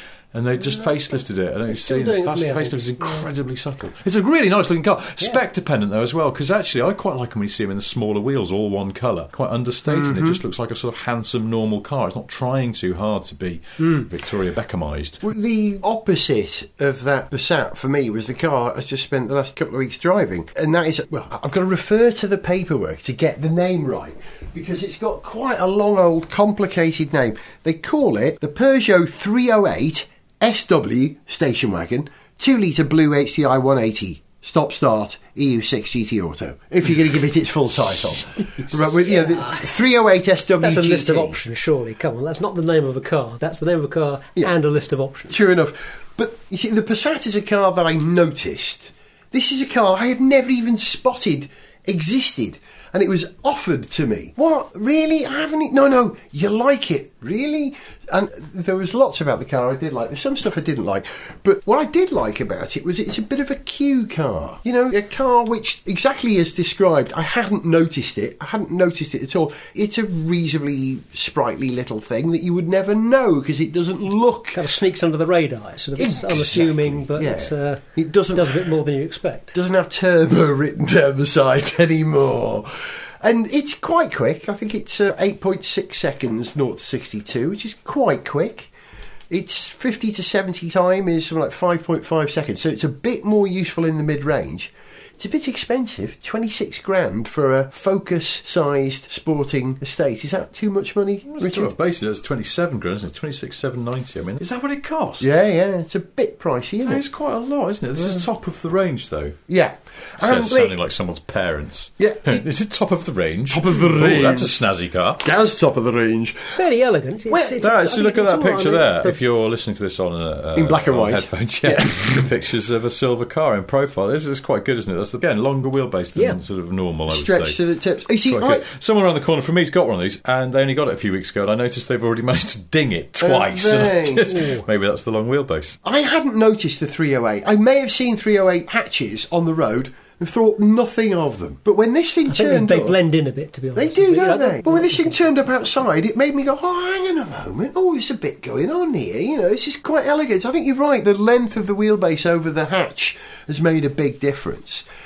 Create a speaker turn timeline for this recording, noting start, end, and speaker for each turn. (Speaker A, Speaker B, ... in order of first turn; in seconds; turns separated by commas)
Speaker A: 0.3-15.2, Speaker B: 1.7-3.3, Speaker C: 9.9-10.4, Speaker C: 15.2-41.4, Speaker B: 39.1-39.6, Speaker B: 40.6-45.4, Speaker C: 45.3-74.6, Speaker B: 74.5-79.5, Speaker C: 76.0-78.6, Speaker C: 79.5-82.7, Speaker C: 83.2-88.7, Speaker C: 89.3-101.7, Speaker A: 101.2-105.4, Speaker C: 105.2-107.0, Speaker A: 106.8-109.4, Speaker C: 109.5-110.7, Speaker A: 110.2-115.2, Speaker C: 112.0-112.4, Speaker C: 113.5-114.5, Speaker C: 115.2-116.6, Speaker B: 116.6-119.2, Speaker C: 117.3-117.7, Speaker A: 117.6-127.6, Speaker C: 120.5-122.2, Speaker C: 127.1-128.6, Speaker A: 128.2-135.8, Speaker C: 133.2-134.5, Speaker C: 135.8-143.0, Speaker B: 142.3-145.2, Speaker C: 143.7-154.8